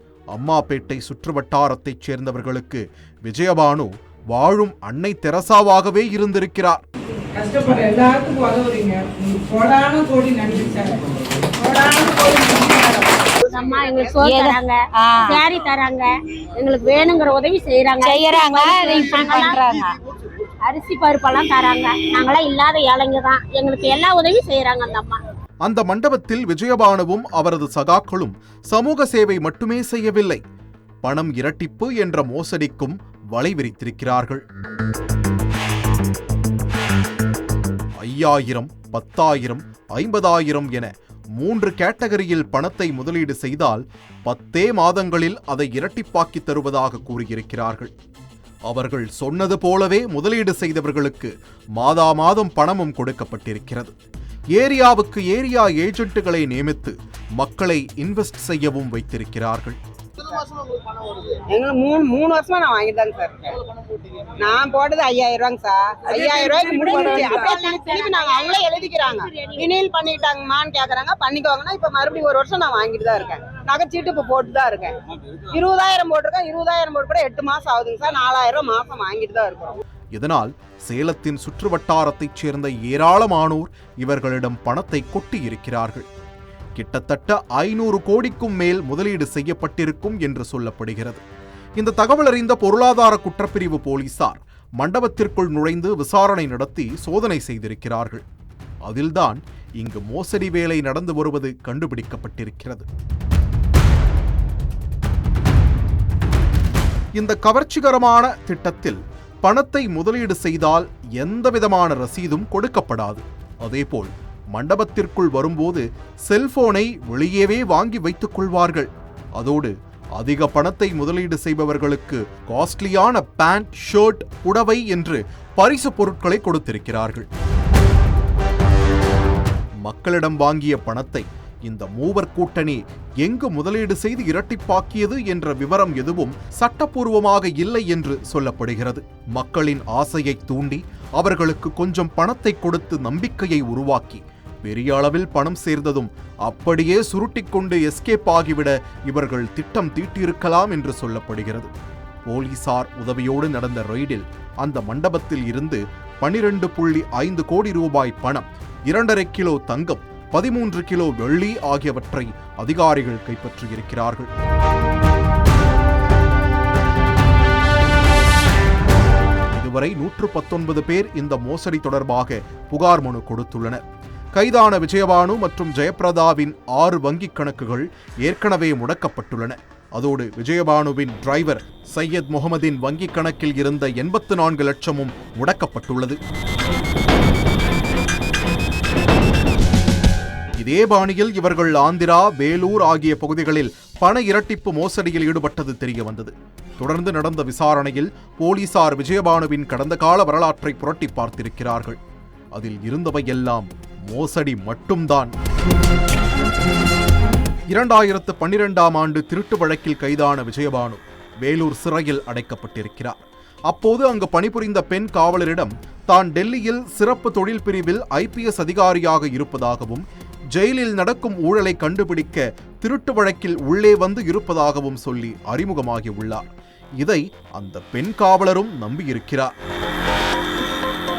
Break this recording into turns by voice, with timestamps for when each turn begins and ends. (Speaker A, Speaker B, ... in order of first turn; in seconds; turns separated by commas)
Speaker A: 0.3-6.8, Speaker B: 7.3-13.4, Speaker C: 13.5-20.0, Speaker B: 18.8-19.1, Speaker C: 20.7-25.2, Speaker A: 25.6-30.4, Speaker A: 31.0-34.4, Speaker A: 38.0-47.9, Speaker A: 48.7-53.9, Speaker A: 54.5-59.8, Speaker D: 61.3-79.8, Speaker B: 66.1-67.7, Speaker C: 67.4-68.7, Speaker C: 69.3-69.7, Speaker A: 80.2-86.1, Speaker A: 86.8-91.2, Speaker A: 91.8-98.2, Speaker A: 98.8-102.9, Speaker A: 107.2-127.3, Speaker A: 129.9-151.7, Speaker A: 152.3-164.3, Speaker A: 169.5-173.8, Speaker A: 174.3-186.2, Speaker A: 190.6-202.0, Speaker A: 202.6-205.3, Speaker A: 207.7-226.4, Speaker A: 227.0-229.5